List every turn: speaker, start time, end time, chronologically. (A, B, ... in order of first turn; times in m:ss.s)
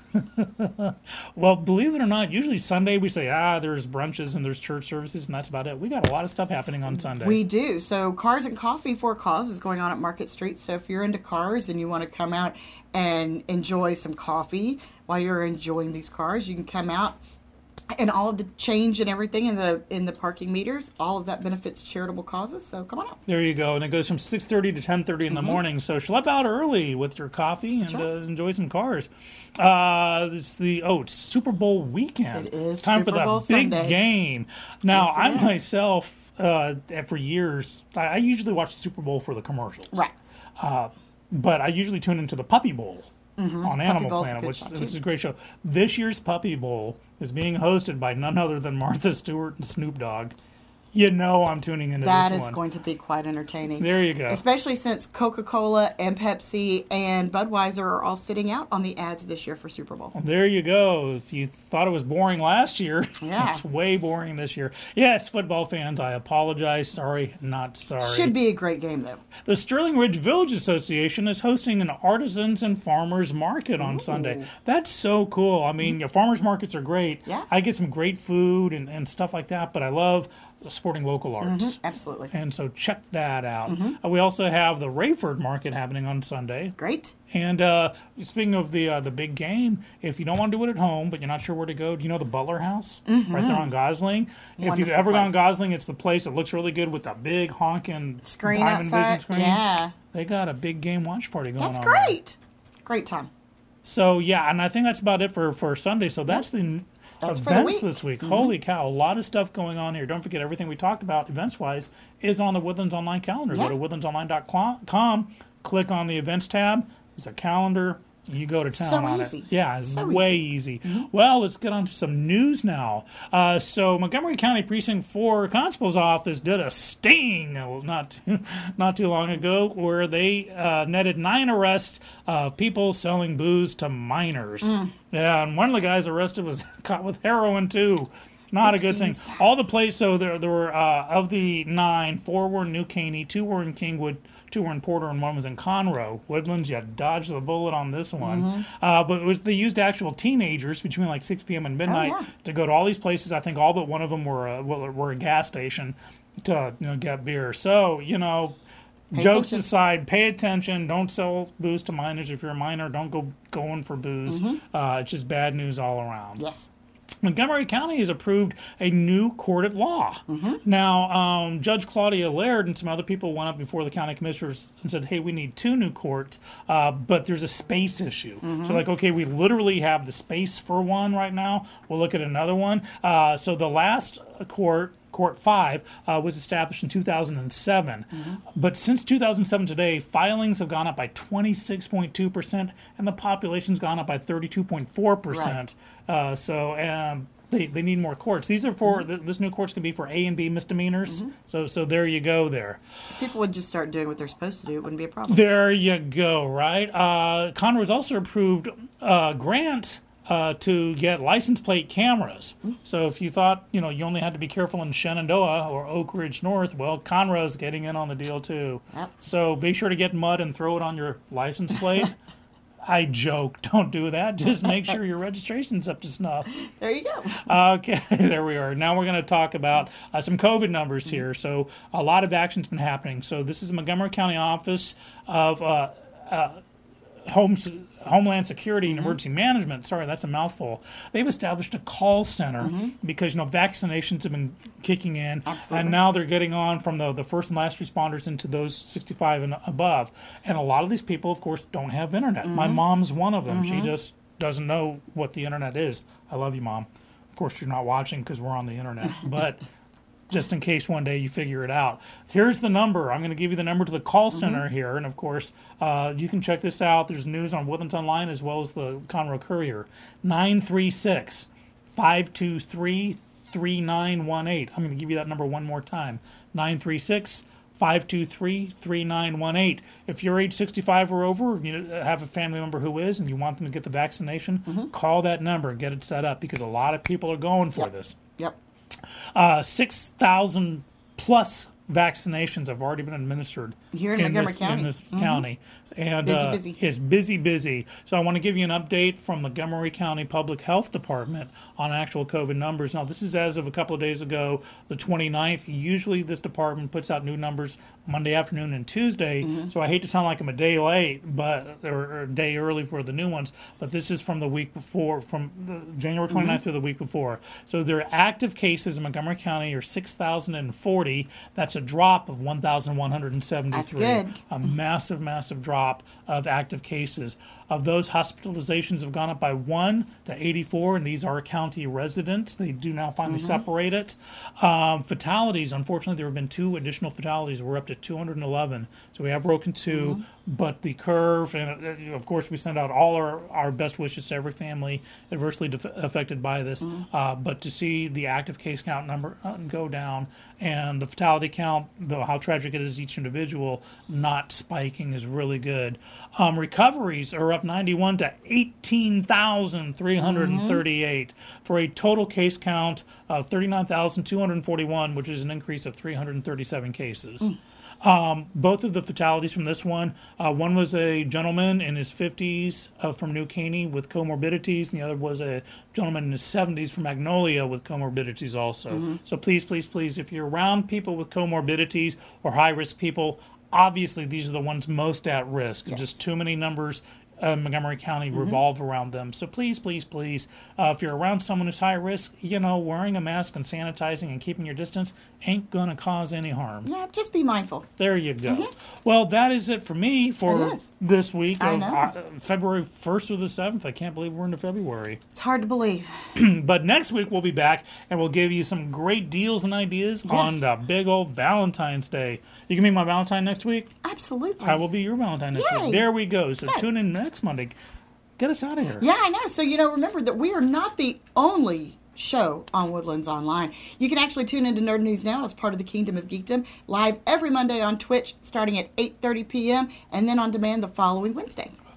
0:00.1-0:07.4 A
0:07.0-0:17.2 B
0:17.9-0:23.2 B
0:23.3-0:40.1 A
0:25.3-0:25.6 B
0:32.3-0:34.0 B
0:34.9-0:35.5 B
0:40.6-0:43.1 A
0:43.4-0:45.0 B
0:43.6-0:50.3 A
0:50.9-0:52.6 A
0:52.0-1:00.2 B
0:53.8-0:54.4 A
1:00.1-1:08.4 A
1:03.2-1:03.6 B
1:08.0-1:09.2 B
1:09.4-1:21.8 A
1:13.8-1:14.5 B
1:21.4-1:22.3 B
1:22.3-1:26.8 A
1:23.7-1:24.0 B
1:26.8-1:27.1 B
1:27.3-1:42.2 A
1:33.1-1:33.7 B
1:34.6-1:35.4 B
1:38.2-1:39.9 B
1:41.6-1:43.3 B
1:43.8-2:38.6 A
1:47.2-1:48.5 B
1:58.7-2:01.1 B
2:14.6-2:14.9 B
2:18.6-2:19.4 B
2:28.2-2:28.6 B
2:31.9-2:32.3 B
2:39.1-2:46.4 A
2:39.1-2:39.7 B
2:44.3-2:44.6 B
2:46.4-2:46.7 B
2:47.2-3:22.8 A
2:50.3-2:50.6 B
2:58.4-2:58.8 B
3:08.1-3:08.4 B
3:15.3-3:15.6 B
3:21.1-3:21.3 B
3:23.2-3:25.4 B
3:25.3-3:42.2 A
3:42.8-3:46.5 A
3:46.5-3:47.5 B
3:47.4-3:56.6 A
3:57.2-4:19.6 A
3:58.9-3:59.2 B
4:02.6-4:02.9 B
4:05.5-4:06.0 B
4:12.4-4:12.8 B
4:13.5-4:13.9 B
4:20.3-4:48.2 A
4:24.4-4:24.6 B
4:47.8-4:48.6 B
4:49.4-6:36.9 A
4:53.9-4:55.4 B
4:56.2-4:56.8 B
5:09.4-5:09.7 B
5:16.3-5:16.6 B
5:23.7-5:24.4 B
5:33.2-5:33.6 B
5:39.9-5:40.2 B
6:00.2-6:00.8 B
6:18.9-6:19.2 B
6:36.9-6:37.9 B
6:38.0-6:45.2 A
6:40.5-6:40.9 B
6:41.6-6:42.1 B
6:45.4-6:46.1 B
6:46.4-6:53.9 A
6:50.3-6:50.6 B
6:54.0-6:54.8 B
6:54.6-6:57.8 A
6:55.5-6:56.1 B
6:58.4-6:59.1 A
6:59.0-7:11.8 B